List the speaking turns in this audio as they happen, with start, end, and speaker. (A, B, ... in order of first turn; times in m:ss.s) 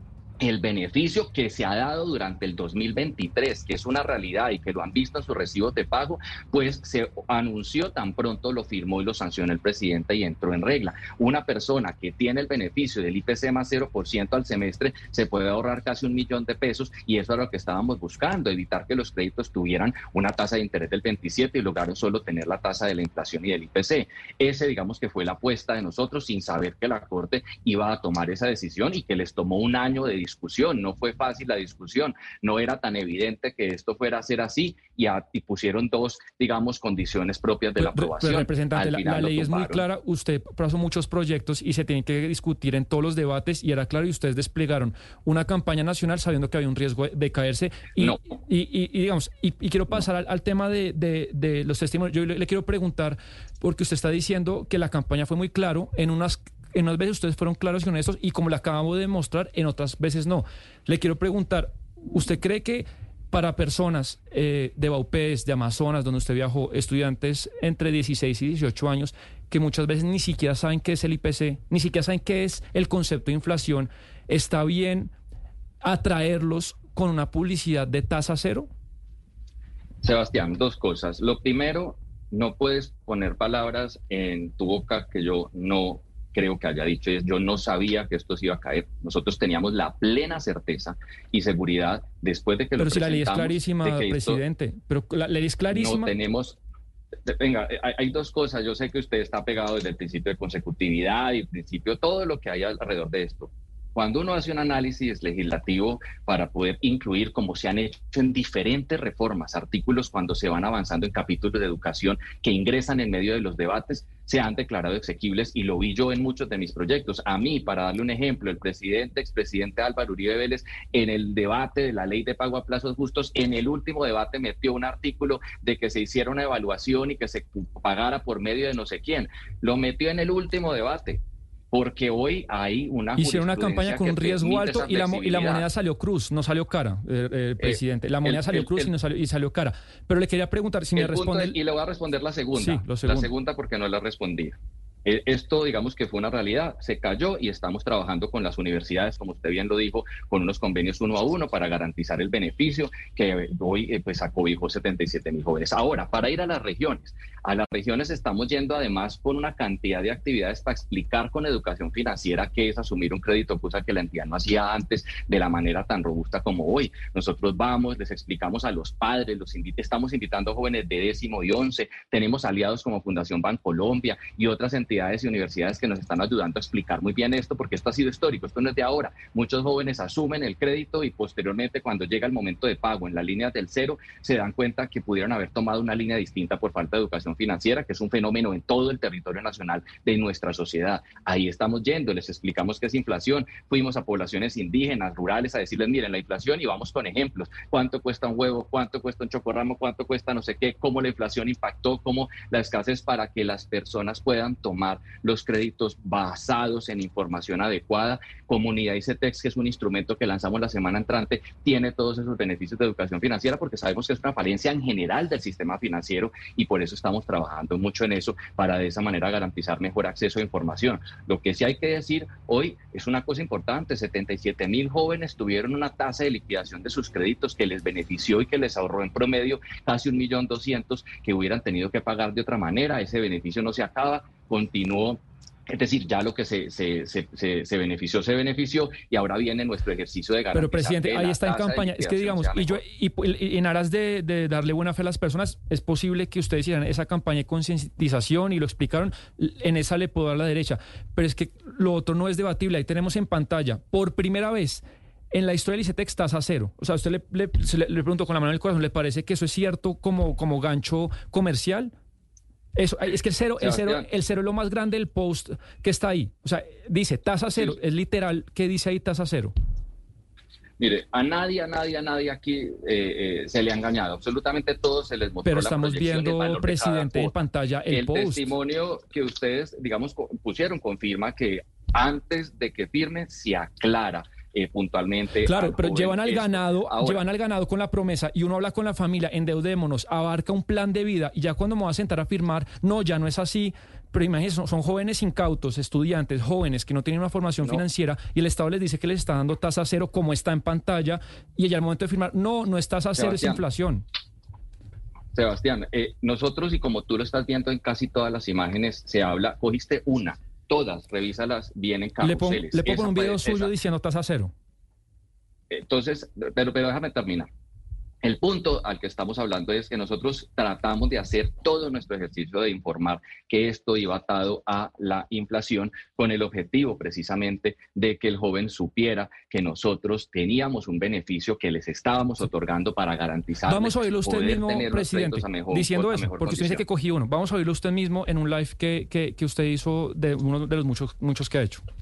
0:00.4-0:39.8 A
0:37.8-1:15.1 B
1:15.8-1:18.7 B
1:20.0-1:34.4 A
1:32.8-1:36.1 B
1:35.7-1:36.6 A
1:37.3-2:15.7 A
2:13.2-2:21.6 B
2:17.6-2:18.9 A
2:21.0-4:02.8 A
2:22.5-2:23.3 B
4:00.5-4:21.9 B
4:22.7-4:29.5 B
4:23.6-4:24.1 A
4:30.8-4:37.3 A
4:35.4-4:38.5 B
4:37.9-4:47.2 A
4:45.4-5:04.0 B
5:03.1-5:03.6 A
5:05.3-5:13.7 A
5:12.2-5:14.5 B
5:15.7-5:17.5 A
5:18.2-5:36.8 A
5:33.6-5:41.8 B